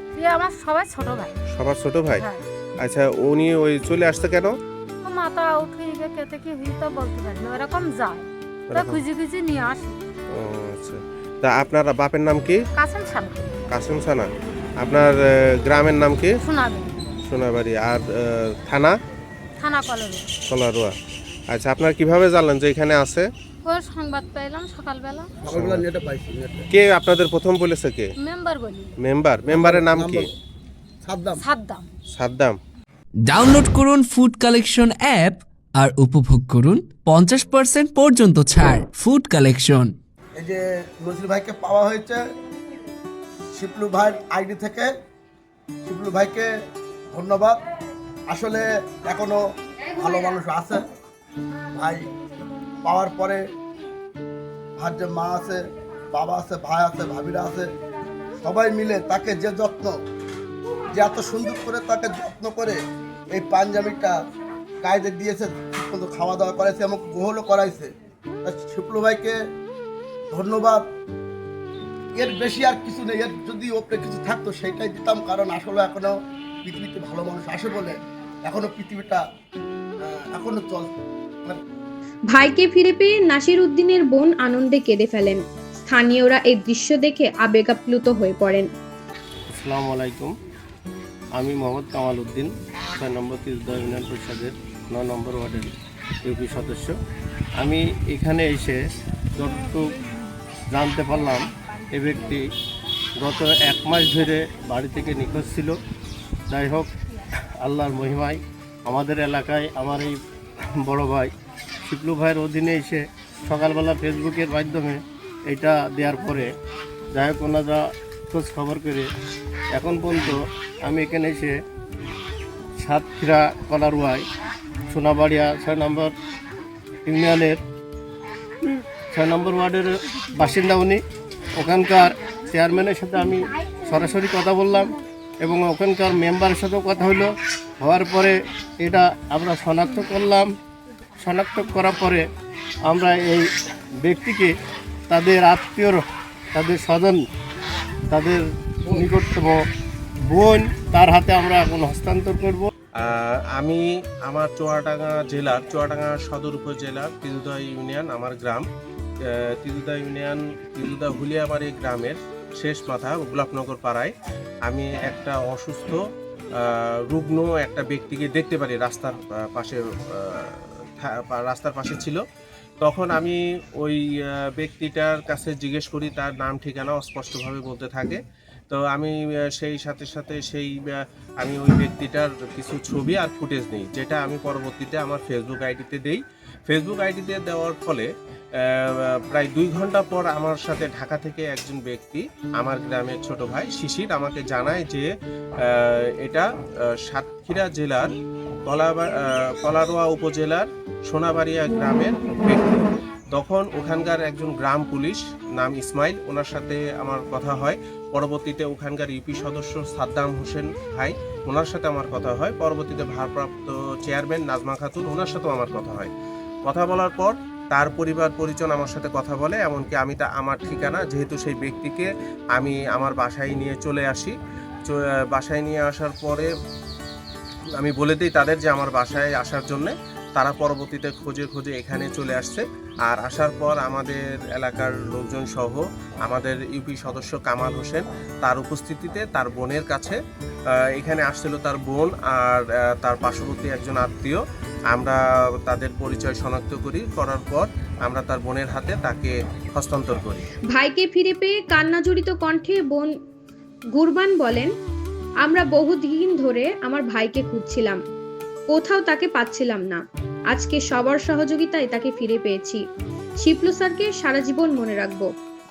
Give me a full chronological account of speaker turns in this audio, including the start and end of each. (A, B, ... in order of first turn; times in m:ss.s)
0:00.2-0:01.4 A
0:01.5-0:02.3 B
0:02.2-0:02.4 A
0:02.8-0:04.6 B
0:05.0-0:10.0 A
0:08.7-0:09.0 B
0:10.3-0:12.6 B
0:12.8-0:13.6 A
0:13.7-0:14.3 B
0:14.8-0:16.4 B
0:16.4-0:17.0 A
0:17.2-0:19.0 B
0:19.6-0:20.3 A
0:20.5-0:21.0 B
0:21.5-0:23.3 B
0:23.6-0:25.3 A
0:25.4-0:26.7 C
0:25.5-0:25.8 B
0:26.7-0:28.1 B
0:28.2-0:29.0 A
0:29.0-0:30.3 B
0:29.5-0:30.3 C
0:31.0-0:31.4 C
0:31.4-0:31.9 A
0:32.1-0:32.6 B
0:33.2-0:39.9 D
0:40.4-0:42.2 C
0:43.6-0:44.9 C
0:45.8-0:46.5 C
0:47.1-0:47.6 C
0:48.3-0:49.4 C
0:50.0-0:50.8 C
0:51.7-0:52.1 C
0:52.8-0:53.4 C
0:54.8-0:57.7 C
0:58.4-1:00.0 C
1:01.0-1:02.8 C
1:03.3-1:04.2 C
1:04.8-1:07.9 C
1:08.4-1:09.4 C
1:10.3-1:10.8 C
1:12.2-1:19.2 C
1:20.0-1:20.9 C
1:22.3-1:28.7 E
1:29.5-1:30.3 F
1:31.4-1:37.0 F
1:37.6-1:38.8 F
1:39.4-1:39.9 F
1:40.7-1:42.4 F
1:43.2-1:45.8 F
1:46.5-1:46.9 F
1:47.6-1:50.2 F
1:50.8-1:51.3 F
1:51.8-1:56.5 F
1:57.1-1:59.1 F
1:59.7-2:01.6 F
2:02.8-2:04.2 F
2:04.9-2:06.1 F
2:07.1-2:07.6 F
2:09.1-2:11.0 F
2:11.6-2:20.5 F
2:21.2-2:22.2 F
2:22.8-2:23.5 F
2:24.0-2:24.5 F
2:25.1-2:26.0 F
2:26.5-2:27.2 F
2:28.1-2:29.6 F
2:30.3-2:32.7 F
2:33.0-2:38.6 B
2:39.3-2:44.1 B
2:44.7-2:46.0 B
2:46.6-2:52.2 B
2:52.8-3:08.1 B
3:08.6-3:15.1 B
3:15.6-3:16.5 B
3:17.0-3:18.1 B
3:18.7-3:36.1 B
3:36.7-3:44.4 B
3:44.9-3:46.5 B
3:47.8-4:00.2 B
4:00.8-4:04.4 B
4:04.9-4:10.4 B
4:10.7-4:13.1 E
4:14.0-4:14.7 E
4:15.4-4:18.0 E
4:18.7-4:22.8 E
4:23.4-4:25.3 E